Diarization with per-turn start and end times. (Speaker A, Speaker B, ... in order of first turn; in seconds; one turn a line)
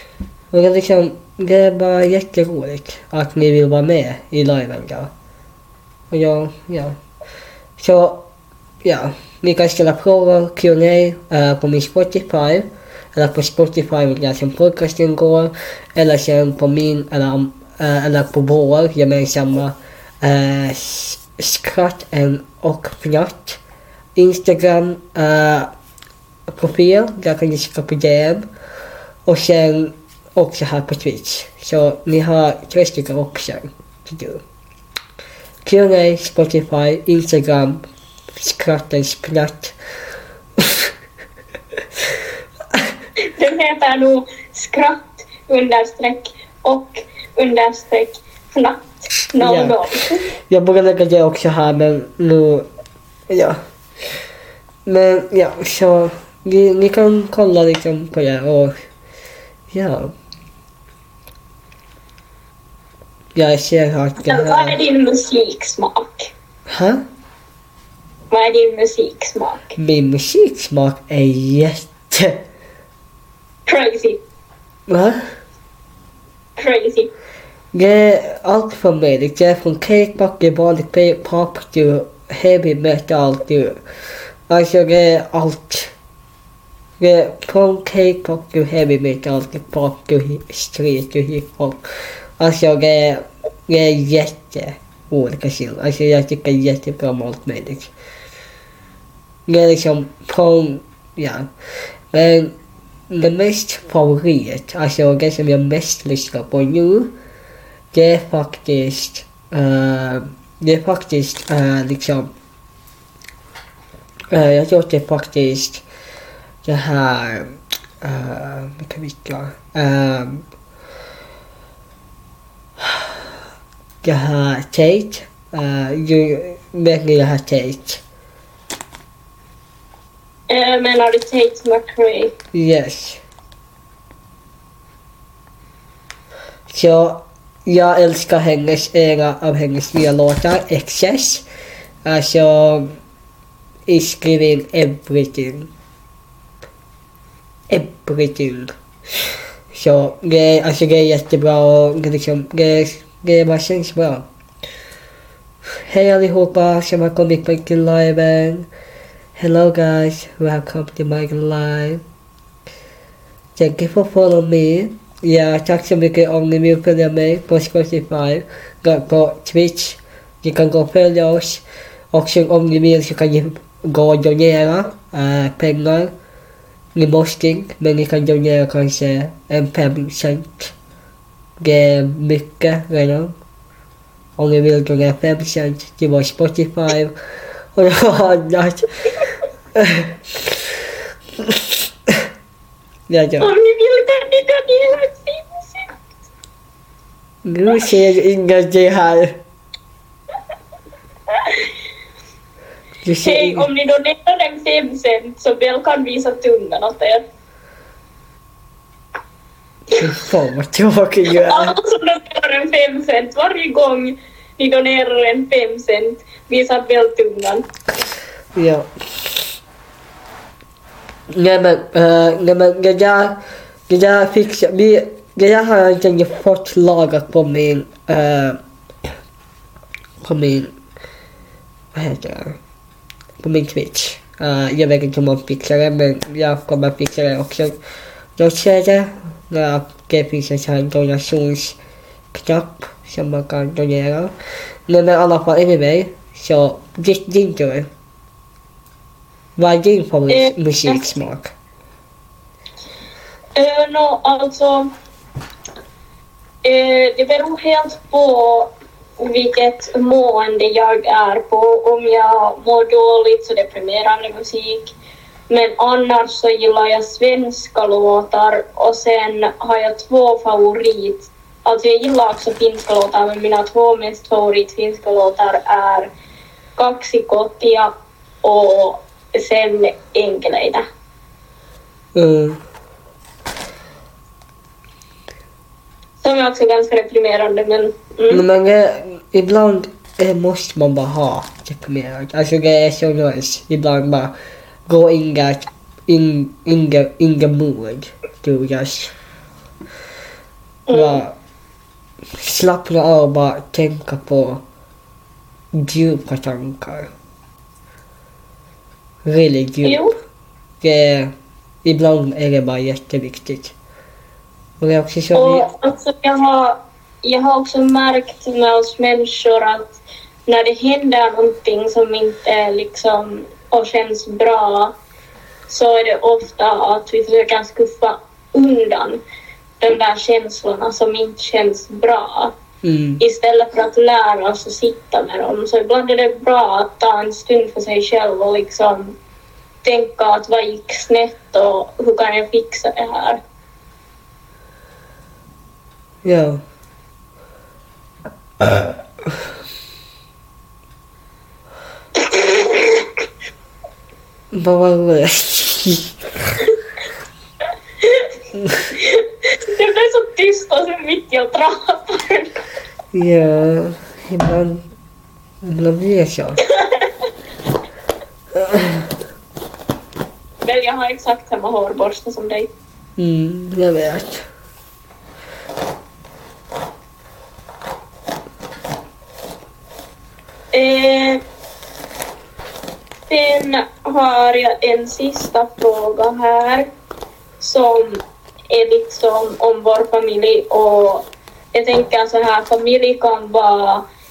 Speaker A: 0.5-5.1
Speaker A: 6.1-7.0
Speaker A: 7.8-8.3
Speaker A: 8.8-23.6
Speaker A: 24.2-25.7
Speaker A: 26.5-28.5
Speaker A: 29.3-34.4
Speaker A: 35.6-37.8
Speaker A: 38.4-39.8
Speaker A: 40.6-40.9
Speaker B: 43.2-50.3
Speaker A: 49.4-49.8
Speaker A: 50.5-52.7
Speaker A: 53.3-53.6
Speaker A: 54.9-58.7
Speaker A: 59.7-60.1
Speaker A: 63.4-64.8
Speaker B: 64.2-66.3
Speaker A: 66.7-67.0
Speaker B: 68.3-69.8
Speaker A: 69.8-72.4
Speaker B: 73.7-74.2
Speaker A: 74.9-75.3
Speaker B: 76.6-77.1
Speaker A: 77.7-83.8
Speaker A: 84.5-85.9
Speaker A: 87.0-91.8
Speaker A: 92.4-97.9
Speaker A: 99.5-101.5
Speaker A: 102.1-102.5
Speaker A: 103.1-107.1
Speaker A: 107.9-112.3
Speaker A: 114.3-115.8
Speaker A: 116.6-120.5
Speaker A: 122.8-123.3
Speaker A: 124.0-128.0
Speaker B: 130.5-132.3
Speaker A: 132.5-133.2
Speaker A: 136.7-141.4
Speaker A: 142.1-142.9
Speaker A: 143.9-145.7
Speaker A: 147.7-148.7
Speaker A: 149.7-154.3
Speaker A: 155.9-158.7
Speaker A: 159.4-162.0
Speaker A: 163.6-176.1
Speaker A: 176.9-180.7
Speaker A: 181.6-183.3
Speaker A: 184.4-187.1
Speaker A: 187.8-188.9
Speaker A: 189.8-192.3
Speaker A: 193.1-193.5
Speaker B: 193.4-195.9
Speaker A: 197.4-199.4
Speaker B: 197.7-198.0
Speaker B: 201.3-201.7
Speaker A: 203.0-203.7
Speaker B: 203.2-207.2
Speaker A: 210.0-211.8
Speaker B: 211.3-217.6
Speaker A: 218.6-219.4
Speaker A: 221.3-228.6
Speaker A: 230.2-230.7
Speaker A: 231.9-232.6
Speaker A: 233.4-237.8
Speaker A: 238.4-241.8
Speaker A: 242.3-244.3
Speaker A: 244.9-247.9
Speaker A: 249.6-251.5
Speaker B: 250.3-251.1
Speaker B: 253.6-254.9
Speaker B: 256.6-264.9
Speaker B: 265.5-276.1
Speaker B: 276.8-277.9
Speaker B: 278.4-280.9
Speaker A: 282.1-282.6
Speaker B: 286.2-288.4
Speaker A: 288.3-294.3
Speaker A: 294.9-299.1
Speaker B: 300.9-301.2
Speaker A: 300.9-301.4
Speaker A: 302.4-304.6
Speaker A: 305.8-307.1
Speaker A: 309.2-310.1
Speaker B: 309.8-310.1
Speaker A: 310.8-311.3
Speaker A: 311.9-313.7
Speaker A: 314.8-315.7
Speaker B: 315.3-324.9
Speaker B: 325.7-329.2
Speaker B: 329.8-332.5
Speaker A: 332.8-333.2
Speaker B: 333.2-339.2
Speaker B: 339.8-343.4
Speaker A: 346.2-346.6
Speaker B: 352.2-353.1
Speaker A: 354.5-356.5
Speaker A: 358.6-358.9
Speaker B: 359.0-362.6
Speaker A: 363.1-364.8
Speaker A: 365.6-366.6
Speaker B: 366.7-367.1
Speaker A: 368.5-369.1
Speaker B: 370.6-372.7
Speaker A: 373.2-374.5
Speaker B: 380.7-381.4
Speaker B: 383.3-386.9
Speaker B: 387.6-394.0